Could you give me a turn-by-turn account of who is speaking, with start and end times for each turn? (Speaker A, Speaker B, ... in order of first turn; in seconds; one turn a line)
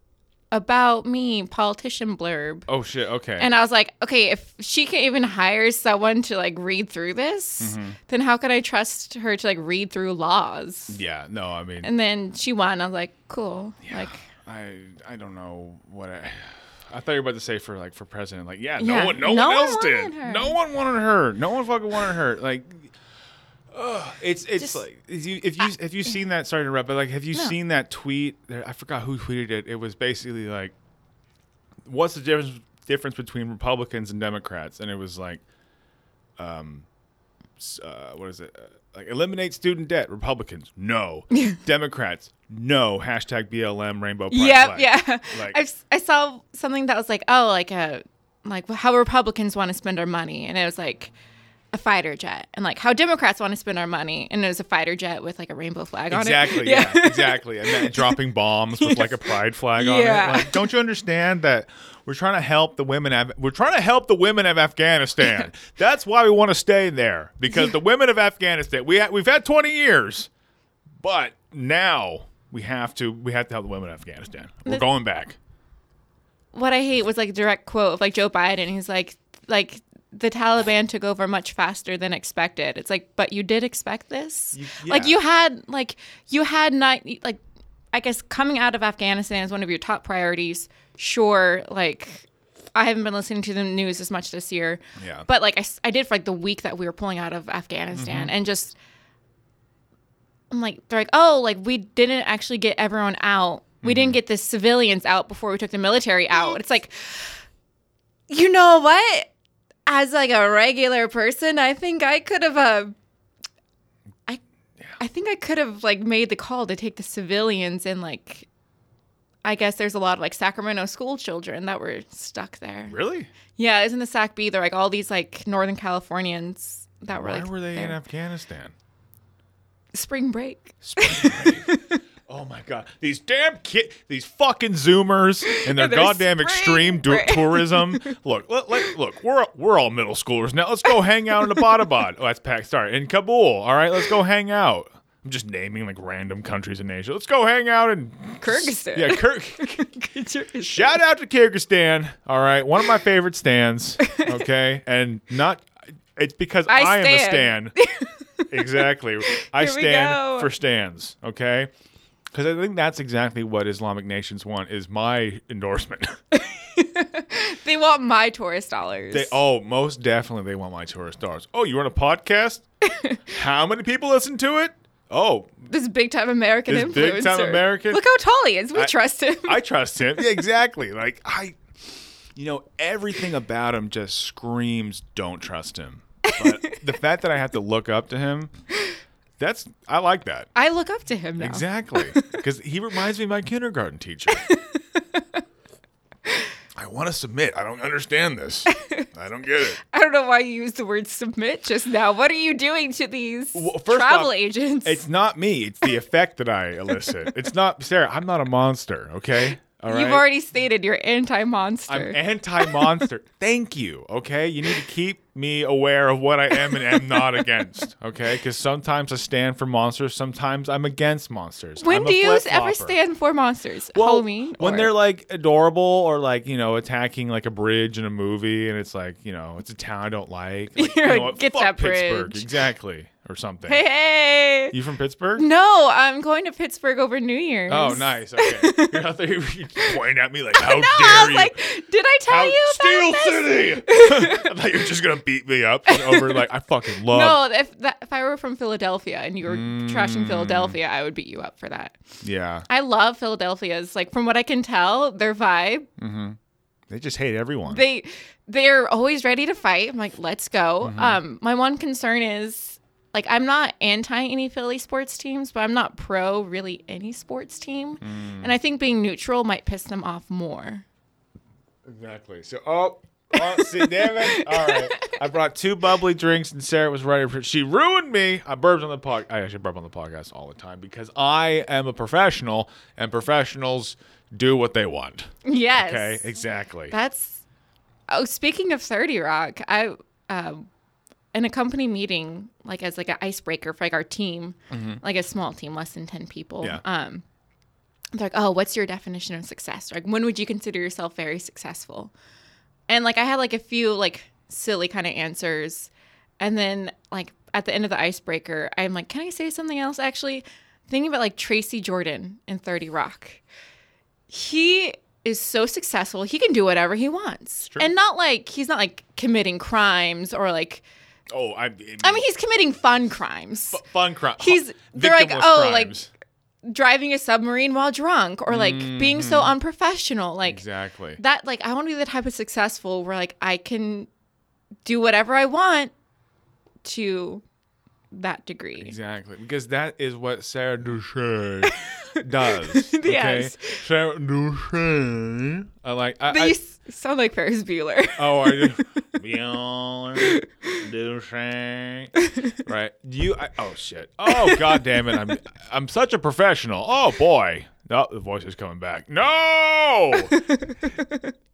Speaker A: 0.5-2.7
Speaker B: 2.7-3.5
Speaker A: 3.4-11.0
Speaker B: 7.6-8.0
Speaker B: 10.9-11.9
Speaker A: 11.8-14.2
Speaker B: 13.8-22.9
Speaker A: 18.8-20.6
Speaker B: 23.7-30.7
Speaker B: 31.8-35.4
Speaker B: 36.4-36.9
Speaker B: 37.6-45.6
Speaker A: 41.3-41.6
Speaker A: 44.3-51.1
Speaker A: 51.7-58.2
Speaker B: 56.1-70.3
Speaker A: 58.8-60.6
Speaker B: 71.0-75.4
Speaker A: 76.5-87.4
Speaker B: 84.5-85.2
Speaker A: 87.9-98.8
Speaker B: 95.0-95.3
Speaker B: 97.9-98.3
Speaker A: 100.5-107.4
Speaker B: 103.8-104.2
Speaker A: 108.3-109.3
Speaker A: 109.9-112.9
Speaker A: 115.0-118.5
Speaker A: 119.4-123.0
Speaker B: 122.9-123.3
Speaker A: 123.5-128.0
Speaker B: 127.1-128.7
Speaker A: 129.9-132.0
Speaker B: 130.8-131.7
Speaker B: 132.3-149.9
Speaker A: 135.4-138.1
Speaker A: 148.4-151.0
Speaker B: 150.6-157.7
Speaker A: 156.7-160.5
Speaker B: 158.5-161.7
Speaker B: 162.3-166.2
Speaker A: 166.3-169.4
Speaker B: 169.1-172.6
Speaker A: 172.8-173.2
Speaker B: 173.3-175.6
Speaker A: 175.7-179.6
Speaker B: 176.7-178.0
Speaker B: 179.4-181.6
Speaker B: 182.3-188.5
Speaker A: 186.2-186.8
Speaker B: 189.4-190.5
Speaker A: 190.5-192.4
Speaker B: 191.4-194.4
Speaker A: 194.3-195.4
Speaker B: 196.8-199.8
Speaker A: 198.8-199.1
Speaker A: 199.8-205.0
Speaker B: 203.5-210.2
Speaker A: 209.9-213.0
Speaker B: 211.9-222.9
Speaker A: 216.6-217.4
Speaker A: 221.8-224.9
Speaker B: 223.9-233.8
Speaker A: 230.8-232.4
Speaker A: 233.7-234.7
Speaker B: 234.7-235.5
Speaker A: 235.4-239.0
Speaker B: 237.7-241.5
Speaker A: 240.5-244.5
Speaker B: 242.3-247.4
Speaker A: 245.9-246.4
Speaker A: 247.1-252.0
Speaker B: 249.4-250.8
Speaker B: 252.2-252.7
Speaker A: 252.7-255.9
Speaker B: 256.0-256.4
Speaker B: 256.9-257.8
Speaker A: 257.7-270.8
Speaker B: 260.8-261.2
Speaker B: 268.0-268.5
Speaker B: 271.8-286.9
Speaker A: 273.4-275.2
Speaker A: 285.4-286.3
Speaker A: 286.9-287.4
Speaker A: 288.1-290.7
Speaker A: 291.3-297.2
Speaker B: 294.7-295.0
Speaker A: 298.1-302.1
Speaker A: 302.9-313.4
Speaker A: 314.3-320.8
Speaker B: 317.6-317.9
Speaker B: 321.3-322.2
Speaker A: 322.0-323.8
Speaker B: 323.7-326.1
Speaker A: 324.4-326.0
Speaker A: 326.6-330.6
Speaker B: 328.5-329.5
Speaker B: 330.5-331.2
Speaker A: 331.2-334.1
Speaker A: 334.8-335.9
Speaker A: 336.8-337.4
Speaker A: 338.1-338.9
Speaker B: 338.8-346.6
Speaker A: 341.7-343.8
Speaker A: 346.3-349.0
Speaker B: 348.2-360.4
Speaker A: 350.2-350.8
Speaker A: 352.2-352.5
Speaker A: 354.3-354.8
Speaker A: 360.3-361.3